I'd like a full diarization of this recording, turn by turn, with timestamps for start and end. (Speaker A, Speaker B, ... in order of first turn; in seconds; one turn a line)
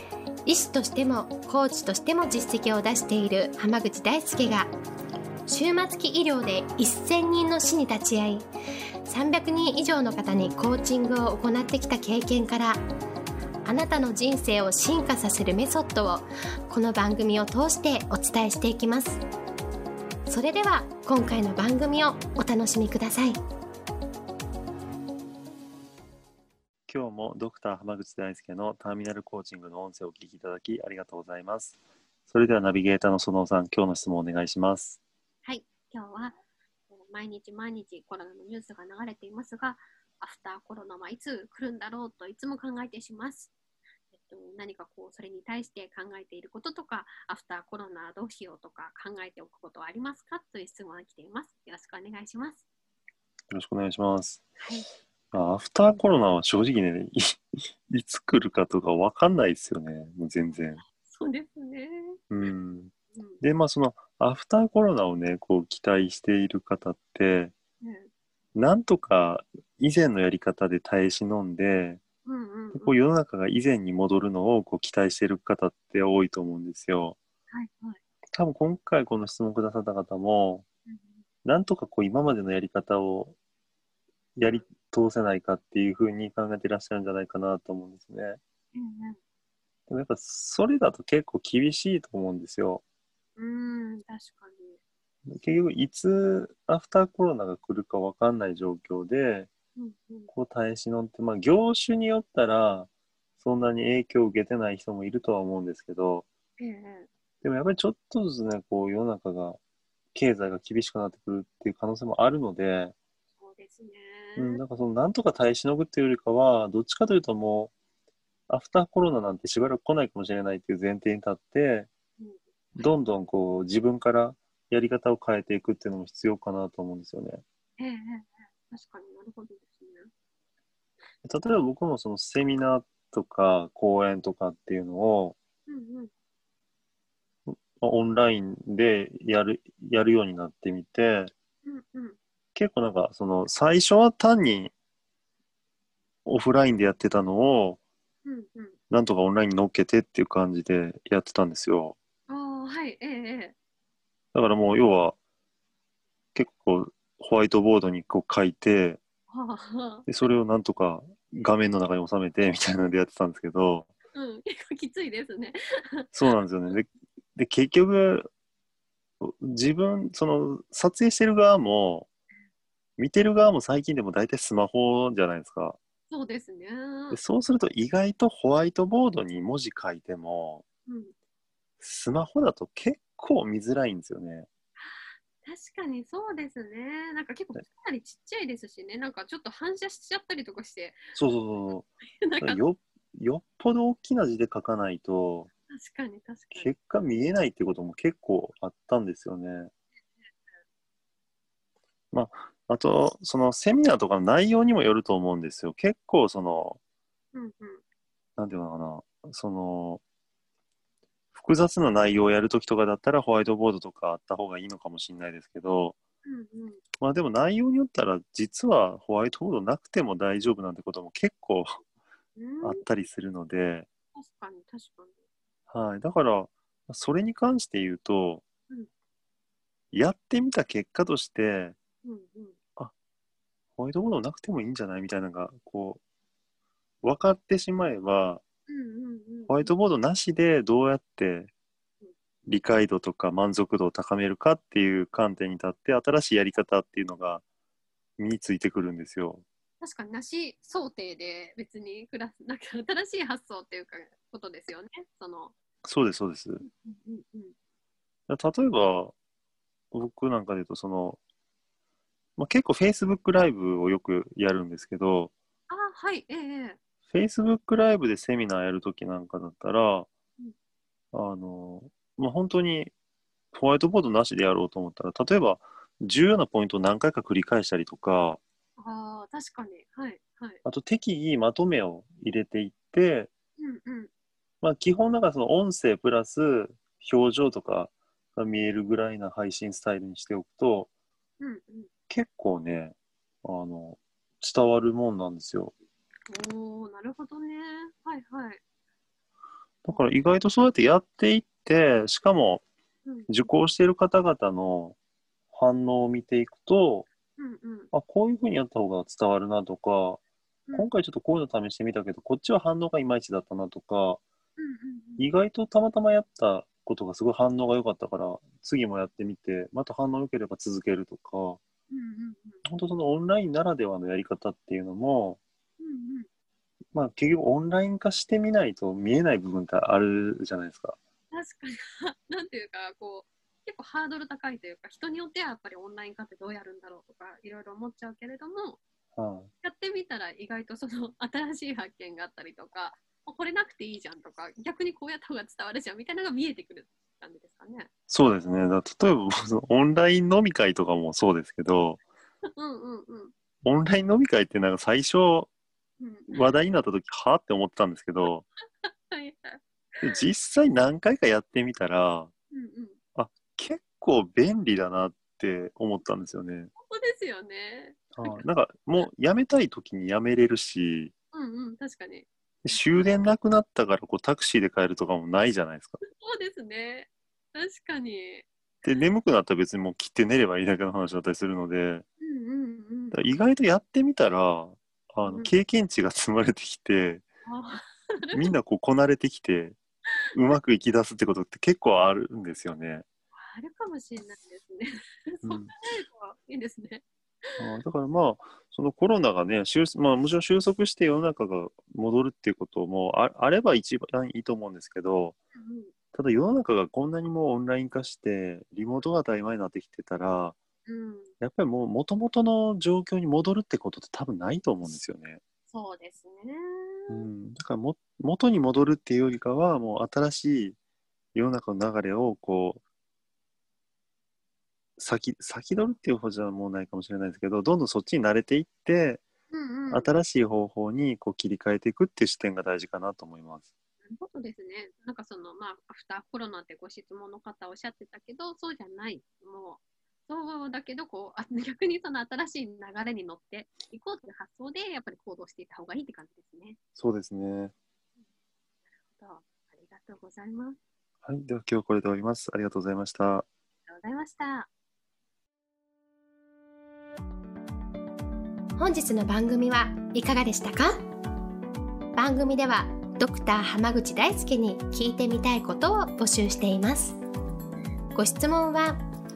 Speaker A: 0.5-4.7
Speaker A: 5.5-8.5
Speaker A: 9.1-12.8
Speaker A: 13.7-19.2
Speaker A: 20.3-23.4
Speaker B: 26.9-31.8
Speaker B: 32.3-35.0
Speaker C: 35.5-36.4
Speaker C: 36.9-43.5
Speaker C: 44.1-52.6
Speaker B: 53.5-54.5
Speaker C: 54.6-54.9
Speaker B: 55.3-60.8
Speaker C: 60.9-62.2
Speaker B: 62.3-67.5
Speaker C: 63.1-63.4
Speaker C: 67.8-68.1
Speaker B: 68.5-72.0
Speaker C: 72.2-73.0
Speaker B: 72.7-77.2
Speaker C: 77.5-78.0
Speaker B: 78.3-80.7
Speaker C: 80.9-81.2
Speaker B: 81.4-83.4
Speaker B: 84.4-88.4
Speaker C: 88.7-89.2
Speaker B: 89.9-92.8
Speaker C: 93.4-94.8
Speaker B: 95.3-99.5
Speaker C: 99.8-100.3
Speaker B: 100.3-102.9
Speaker B: 103.4-106.3
Speaker C: 106.6-107.1
Speaker B: 107.4-109.6
Speaker B: 110.1-112.9
Speaker C: 113.4-114.6
Speaker B: 114.4-117.7
Speaker B: 118.5-121.9
Speaker C: 122.2-122.9
Speaker B: 122.8-127.4
Speaker C: 127.8-130.1
Speaker B: 131.2-135.4
Speaker C: 135.7-136.1
Speaker B: 137.5-141.3
Speaker C: 141.7-142.2
Speaker B: 142.6-144.7
Speaker B: 146.2-147.8
Speaker C: 148.2-148.8
Speaker B: 148.9-152.0
Speaker C: 152.3-153.6
Speaker B: 154.3-155.2
Speaker B: 156.3-159.0
Speaker C: 159.3-160.1
Speaker B: 160.1-163.9
Speaker C: 164.1-166.1
Speaker B: 166.1-168.3
Speaker B: 169.2-172.1
Speaker B: 173.0-175.8
Speaker C: 176.1-177.2
Speaker B: 177.1-180.7
Speaker C: 180.9-181.1
Speaker B: 181.8-184.5
Speaker C: 184.8-191.0
Speaker B: 191.2-191.9
Speaker C: 192.2-192.6
Speaker B: 192.4-195.5
Speaker C: 195.7-196.7
Speaker B: 196.5-199.7
Speaker B: 202.1-206.8
Speaker C: 207.3-207.8
Speaker B: 208.4-210.0
Speaker B: 211.3-216.0
Speaker C: 216.2-216.8
Speaker B: 217.0-221.8
Speaker C: 222.4-222.8
Speaker B: 222.6-223.9
Speaker C: 224.2-225.2
Speaker B: 225.7-228.4
Speaker B: 229.9-231.8
Speaker C: 232.0-232.6
Speaker B: 233.8-236.0
Speaker B: 237.0-238.4
Speaker C: 238.7-239.7
Speaker B: 239.5-241.5
Speaker B: 242.5-247.4
Speaker B: 248.2-249.4
Speaker C: 249.8-255.5
Speaker B: 255.8-256.6
Speaker C: 256.6-257.5
Speaker B: 258.3-259.1
Speaker B: 259.9-261.2
Speaker B: 262.4-265.3
Speaker C: 265.7-266.8
Speaker B: 267.1-270.1
Speaker B: 271.1-272.9
Speaker B: 273.5-278.4
Speaker C: 278.8-280.6
Speaker B: 280.6-283.3
Speaker C: 283.6-284.1
Speaker B: 284.6-290.9
Speaker C: 291.4-291.9
Speaker B: 292.1-295.7
Speaker C: 296.3-298.6
Speaker B: 299.9-302.6
Speaker C: 303.1-303.5
Speaker B: 303.3-305.0
Speaker B: 305.5-307.1
Speaker C: 307.4-307.9
Speaker B: 307.9-310.2
Speaker B: 310.7-314.2
Speaker C: 314.6-315.3
Speaker B: 315.2-321.6
Speaker C: 321.9-322.6
Speaker B: 322.6-325.4
Speaker C: 325.8-326.3
Speaker B: 326.9-331.0
Speaker C: 331.3-338.8
Speaker B: 339.2-339.5
Speaker C: 339.6-347.9
Speaker B: 348.1-352.0
Speaker C: 352.6-353.3
Speaker B: 353.6-355.5
Speaker C: 356.0-356.6
Speaker B: 356.3-358.4
Speaker C: 358.8-360.2
Speaker B: 360.0-362.3
Speaker C: 362.5-363.0
Speaker B: 363.1-366.7
Speaker C: 366.8-368.4
Speaker B: 368.1-371.1
Speaker C: 371.3-372.8
Speaker B: 372.6-376.0
Speaker C: 376.1-378.5
Speaker B: 378.8-382.1
Speaker C: 382.2-383.2
Speaker B: 383.1-387.2
Speaker C: 385.2-385.5
Speaker C: 387.5-388.5
Speaker B: 388.3-389.8
Speaker B: 390.3-393.1
Speaker C: 393.4-397.6
Speaker B: 395.4-395.7
Speaker B: 397.6-405.4
Speaker C: 405.6-405.9
Speaker B: 406.1-410.6
Speaker C: 410.9-411.3
Speaker B: 411.4-415.4
Speaker C: 415.7-417.3
Speaker B: 417.1-420.8
Speaker B: 421.4-422.8
Speaker B: 425.0-429.2
Speaker C: 429.5-430.1
Speaker B: 429.9-433.7
Speaker C: 434.1-446.8
Speaker B: 447.0-447.7
Speaker C: 449.1-450.8
Speaker B: 451.2-453.5
Speaker C: 453.9-454.7
Speaker A: 458.8-461.0
Speaker A: 462.1-467.2
Speaker A: 468.1-469.0